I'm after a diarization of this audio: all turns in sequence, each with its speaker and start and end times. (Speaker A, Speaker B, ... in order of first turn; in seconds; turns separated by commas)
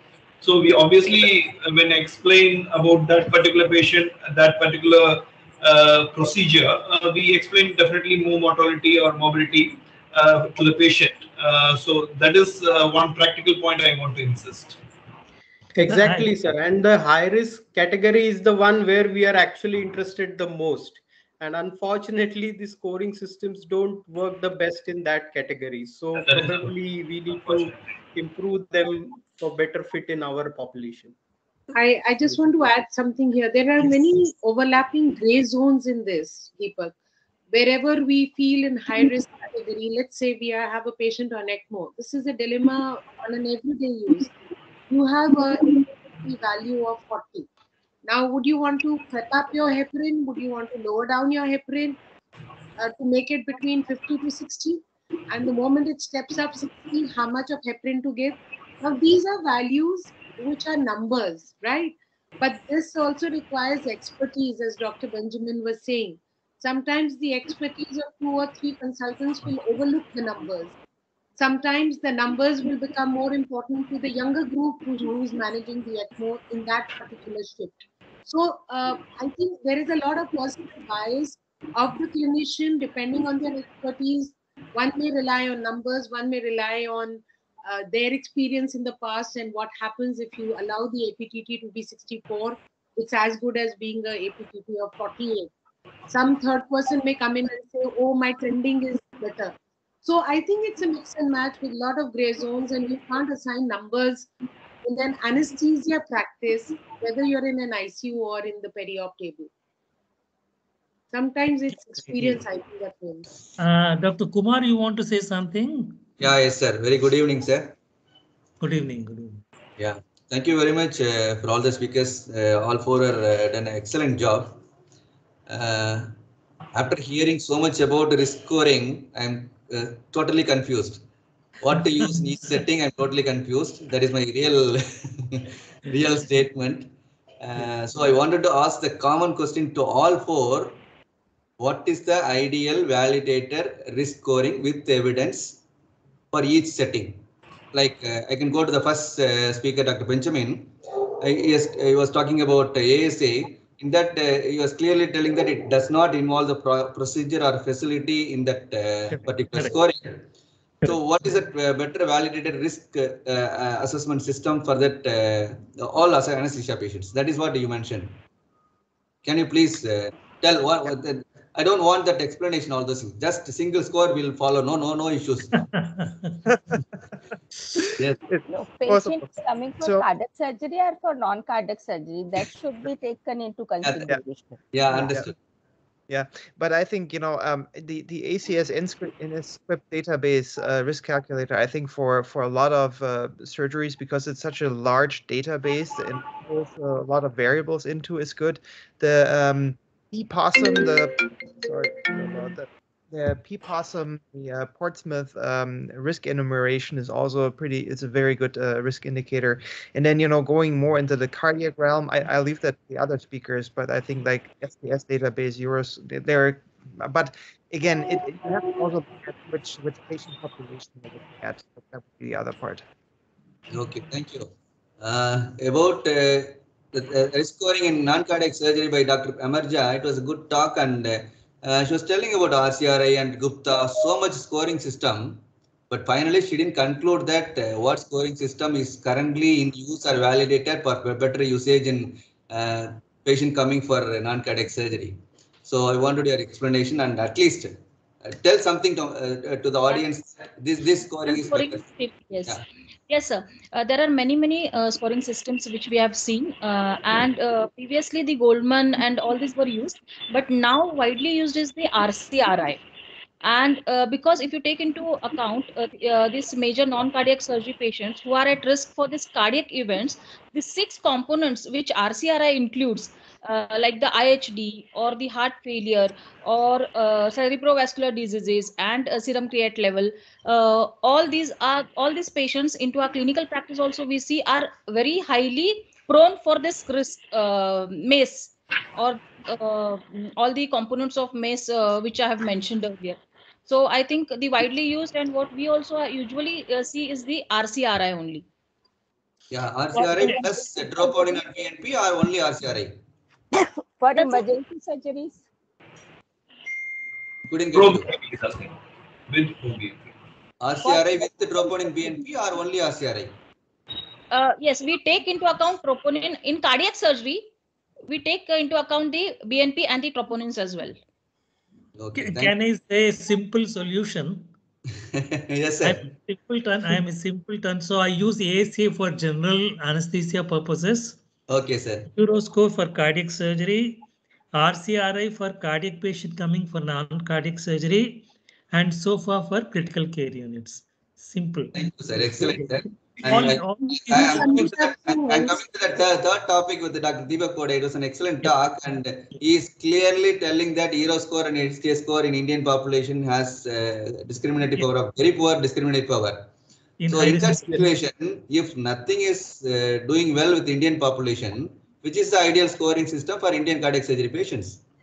Speaker A: 0.4-14.8, Speaker B: 15.8-31.1, Speaker C: 15.9-16.3, Speaker A: 26.1-26.7, Speaker A: 27.3-27.8, Speaker D: 31.7-36.9, Speaker D: 37.5-44.3, Speaker D: 44.9-47.5, Speaker D: 48.0-52.0, Speaker D: 52.8-70.7, Speaker D: 71.4-95.5, Speaker D: 96.1-104.3, Speaker D: 104.8-109.5, Speaker D: 111.1-113.2, Speaker C: 113.6-116.0, Speaker E: 116.2-117.8, Speaker C: 118.6-119.4, Speaker E: 119.8-124.6, Speaker E: 125.5-126.1, Speaker E: 126.7-131.0, Speaker E: 131.6-140.8, Speaker E: 141.6-145.6, Speaker E: 146.3-160.2, Speaker C: 159.1-159.8, Speaker E: 160.8-168.2, Speaker E: 169.2-175.7, Speaker C: 175.5-176.4, Speaker F: 176.5-176.8, Speaker F: 178.3-179.2, Speaker G: 178.4-185.1, Speaker E: 183.8-184.1, Speaker E: 184.7-185.3, Speaker F: 184.9-185.2, Speaker F: 186.1-222.8, Speaker E: 223.7-251.9, Speaker H: 251.2-252.6, Speaker H: 253.1-262.8, Speaker H: 263.4-298.4, Speaker E: 299.5-303.0, Speaker G: 303.5-305.4, Speaker H: 304.1-304.5, Speaker E: 307.5-308.1, Speaker A: 307.7-308.8, Speaker A: 309.3-310.1, Speaker E: 310.6-313.3, Speaker H: 314.3-317.5, Speaker H: 318.1-321.0, Speaker E: 322.0-322.6, Speaker C: 322.2-324.5, Speaker E: 325.1-326.1, Speaker C: 325.8-331.2, Speaker E: 331.5-332.1, Speaker C: 332.1-341.7, Speaker E: 341.7-356.5, Speaker C: 342.4-344.7, Speaker D: 344.1-345.6, Speaker C: 357.0-357.9, Speaker E: 357.1-364.8